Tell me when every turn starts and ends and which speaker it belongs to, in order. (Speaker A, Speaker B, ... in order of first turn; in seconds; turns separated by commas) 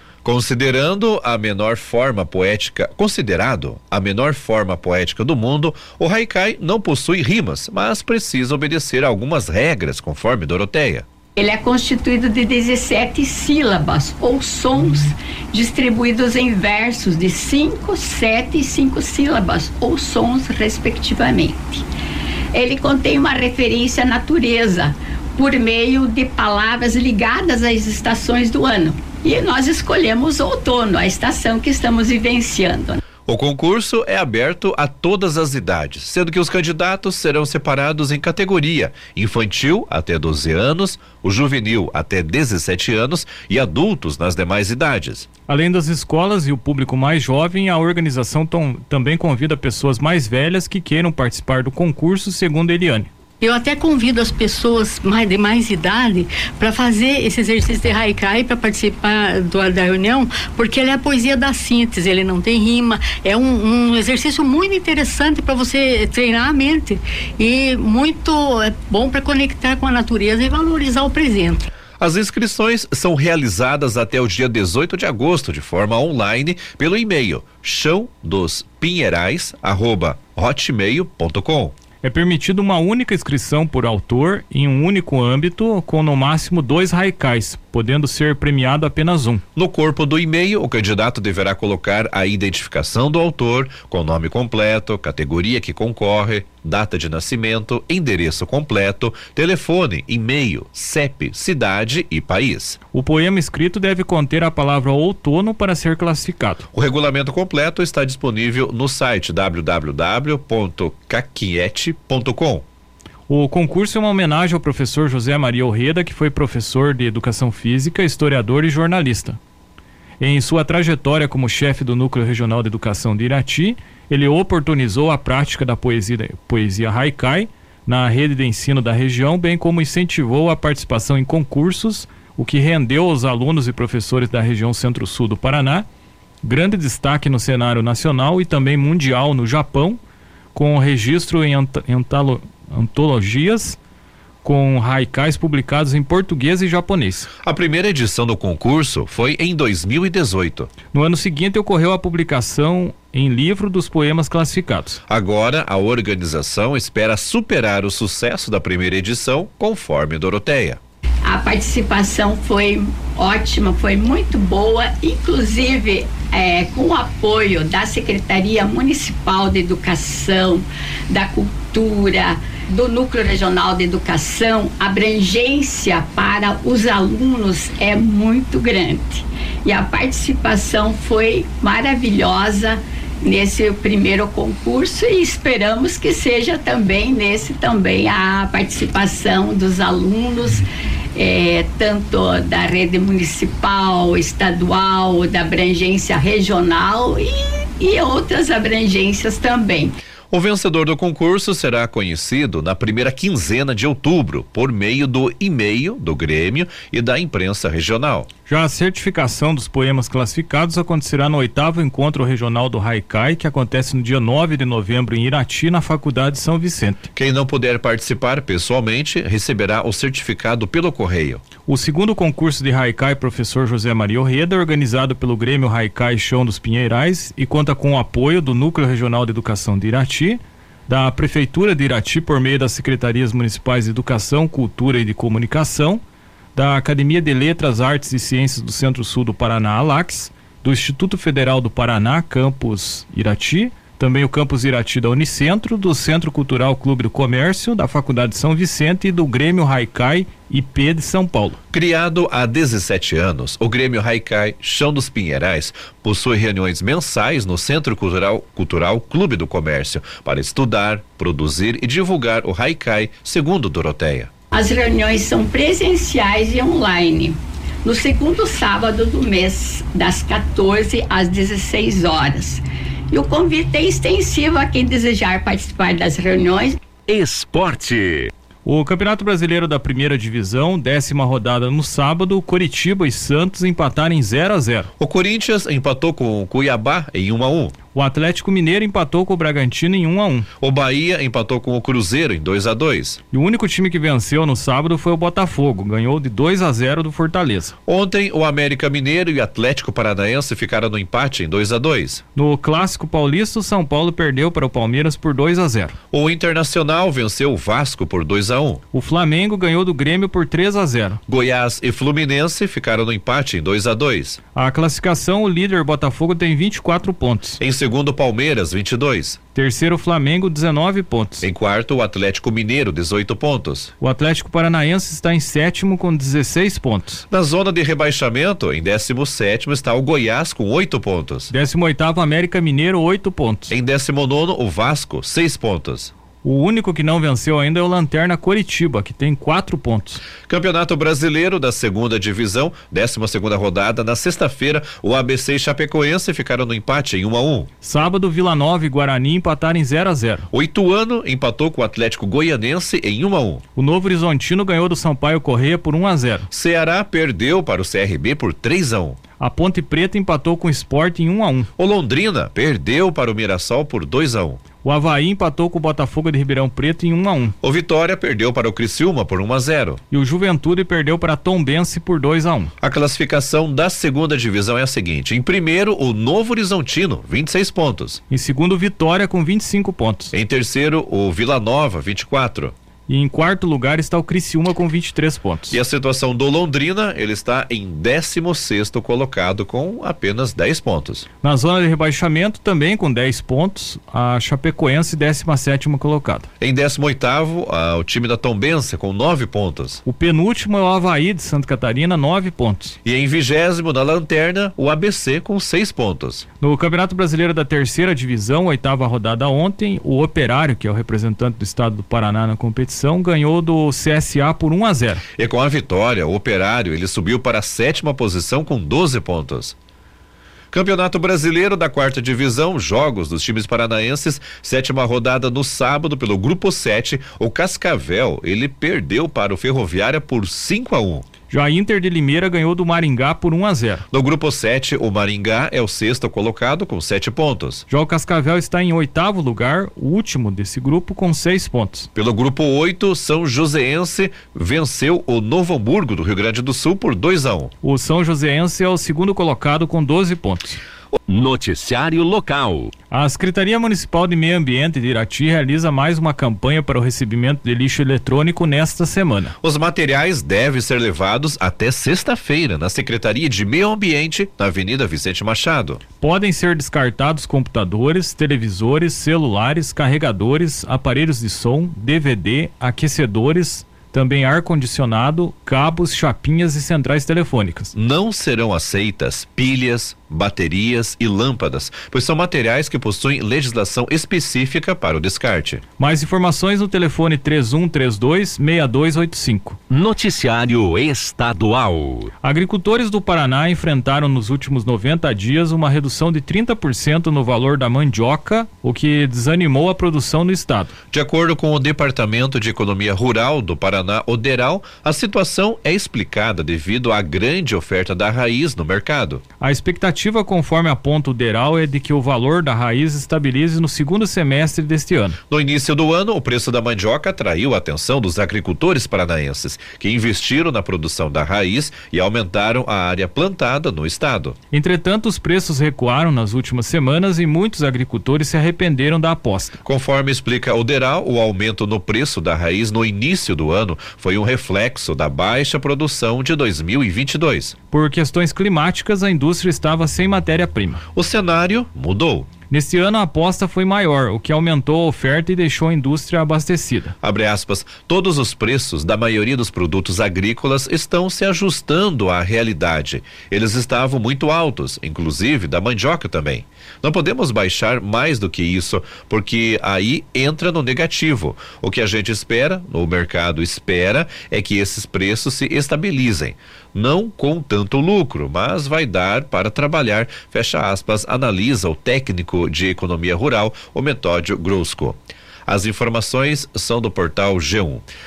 Speaker A: 0.2-11.0, Speaker B: 11.3-21.8, Speaker B: 22.5-33.0, Speaker A: 33.3-45.3, Speaker C: 45.5-53.1, Speaker D: 53.4-71.7, Speaker A: 72.0-81.7, Speaker C: 82.0-89.4, Speaker A: 89.5-102.8, Speaker C: 102.9-106.7, Speaker A: 106.7-112.6, Speaker C: 113.3-119.4, Speaker C: 120.2-135.8, Speaker C: 136.4-140.0, Speaker C: 140.5-143.8, Speaker C: 144.4-147.3, Speaker A: 147.4-150.7, Speaker C: 150.9-155.0, Speaker A: 155.1-160.8, Speaker B: 161.2-200.0, Speaker A: 200.3-208.3, Speaker C: 208.5-217.1, Speaker A: 217.1-221.4, Speaker C: 221.7-236.0, Speaker C: 236.5-251.6, Speaker A: 251.7-264.3, Speaker B: 264.5-276.8, Speaker E: 277.1-278.3, Speaker C: 278.6-284.9, Speaker A: 285.0-287.7, Speaker C: 287.9-290.5, Speaker A: 290.6-293.2, Speaker C: 293.3-297.7, Speaker A: 297.9-302.2, Speaker C: 302.3-305.9, Speaker A: 306.1-308.8, Speaker C: 308.9-311.2, Speaker A: 311.3-314.4, Speaker C: 314.5-317.6, Speaker A: 317.6-319.4, Speaker C: 319.5-321.4, Speaker A: 321.4-323.9, Speaker C: 324.0-327.2, Speaker A: 327.3-331.5, Speaker C: 331.5-333.7, Speaker A: 333.7-336.1, Speaker C: 336.4-340.2, Speaker A: 340.5-347.7, Speaker C: 347.8-350.5, Speaker A: 350.5-353.6, Speaker C: 353.8-356.5, Speaker A: 356.5-359.2, Speaker C: 359.4-361.7, Speaker A: 361.8-364.6, Speaker C: 364.8-367.5, Speaker A: 367.6-370.0, Speaker C: 370.1-372.7, Speaker A: 372.8-378.2, Speaker C: 378.3-380.3, Speaker A: 380.3-382.7, Speaker C: 383.1-385.8, Speaker A: 385.7-391.3, Speaker C: 391.4-396.5, Speaker A: 396.6-400.0, Speaker C: 400.0-402.9, Speaker A: 403.0-406.4, Speaker C: 406.6-415.2, Speaker A: 415.4-419.7, Speaker A: 420.7-431.2, Speaker C: 431.5-434.0, Speaker A: 434.1-437.8, Speaker C: 437.9-442.1, Speaker A: 442.1-447.7, Speaker C: 447.8-450.8, Speaker E: 451.3-452.9, Speaker C: 453.1-459.5, Speaker A: 459.6-466.0, Speaker C: 466.2-477.9, Speaker A: 477.9-485.8, Speaker C: 486.0-489.8, Speaker E: 489.9-492.3, Speaker C: 492.4-500.9, Speaker A: 501.1-509.4, Speaker C: 509.6-515.4, Speaker A: 515.5-524.6, Speaker C: 524.7-529.8, Speaker A: 529.8-537.7, Speaker C: 537.9-541.0, Speaker A: 541.1-542.5, Speaker C: 542.7-547.1, Speaker A: 547.2-578.0